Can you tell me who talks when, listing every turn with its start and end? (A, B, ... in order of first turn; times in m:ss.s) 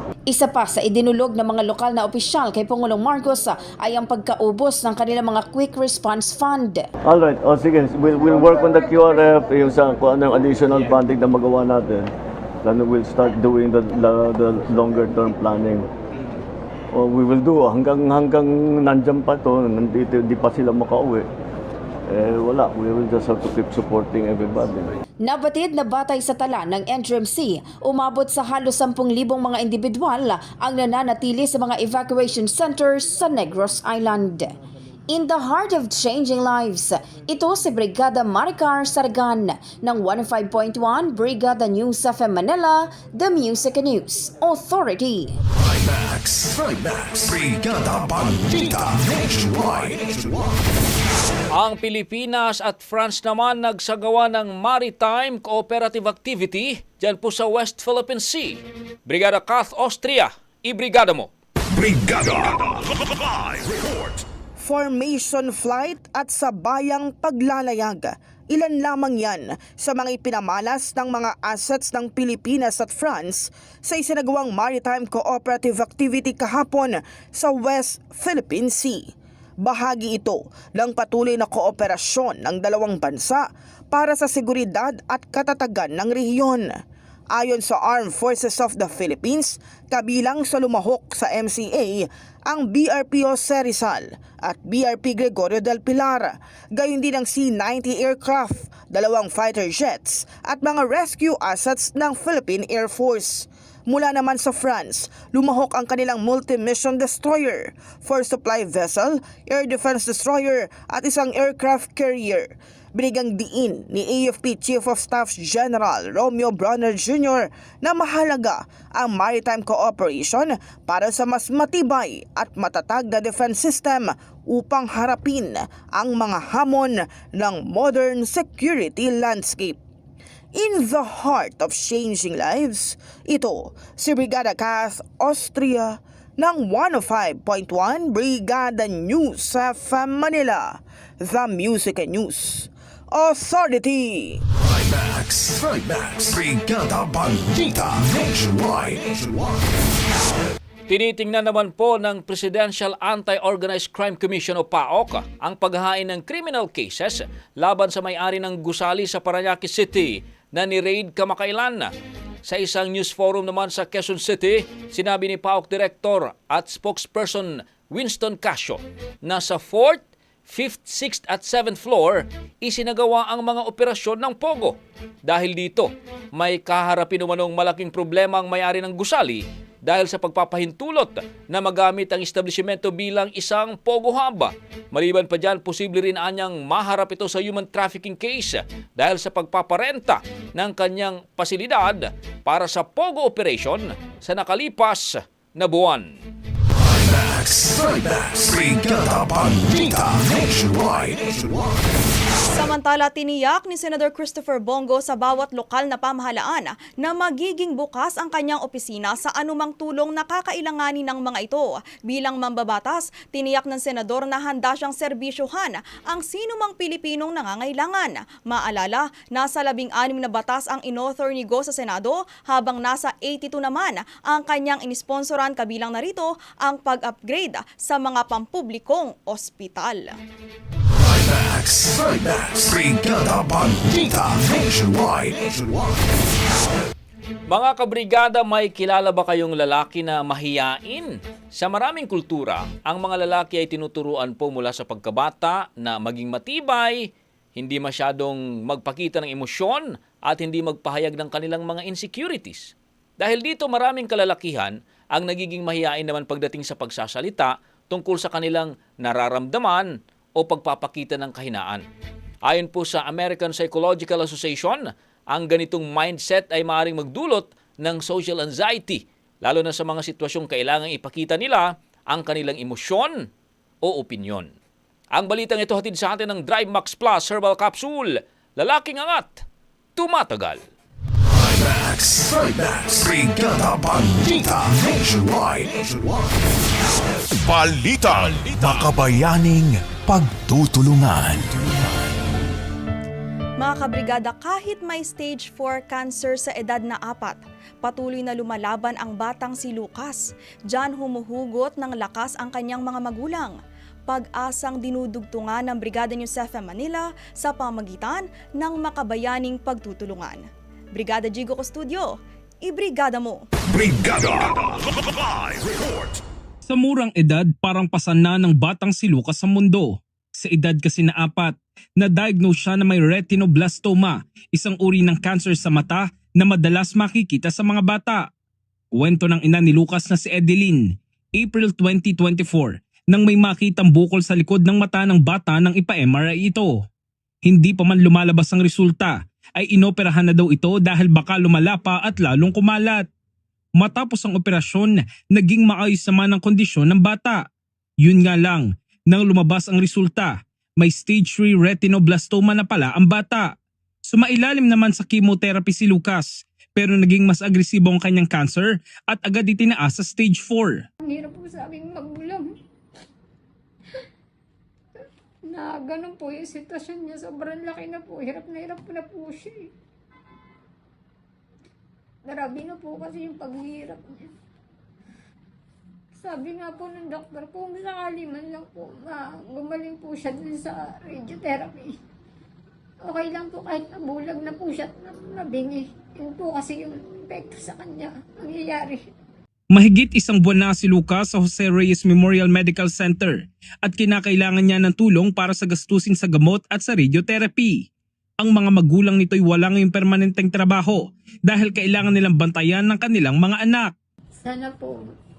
0:00.3-0:06.9 A
0:07.1-0:12.1 B
0:12.6-0:15.8 B
0:16.9-0:21.3 B
0:22.1-0:24.9 B
0:25.2-0:34.5 A
0:35.1-0:45.4 A
0:45.5-0:50.4 C
0:51.5-1:01.3 D
1:01.7-1:02.8 C
1:03.7-1:04.1 C
1:04.6-1:19.1 E
1:19.6-1:26.7 E
1:27.3-2:09.8 E
2:10.5-2:24.4 E
2:24.6-2:29.6 C
2:30.9-2:41.9 D
2:42.4-3:16.2 D
3:16.8-3:21.7 C
3:22.5-3:50.2 F
3:50.9-3:55.9 C
3:57.5-4:21.8 D
4:22.4-4:33.3 D
4:33.8-4:34.5 D
4:35.1-4:39.4 D
4:40.0-4:40.6 D
4:41.3-4:46.2 C
4:47.6-4:51.4 C
4:53.6-5:03.6 F
5:04.1-5:13.4 F
5:13.7-5:14.7 C
5:15.5-5:16.1 C
5:16.6-5:28.3 G
5:29.0-5:36.8 G
5:37.4-5:43.0 G
5:43.8-5:47.4 G
5:48.0-5:53.5 G
5:54.1-6:00.8 G
6:01.0-6:02.5 H
6:05.5-6:09.7 H
6:12.2-6:14.3 H
6:16.2-6:21.9 H
6:23.0-6:29.0 H
6:29.7-6:37.9 G
6:38.4-6:43.9 G
6:44.4-6:45.0 H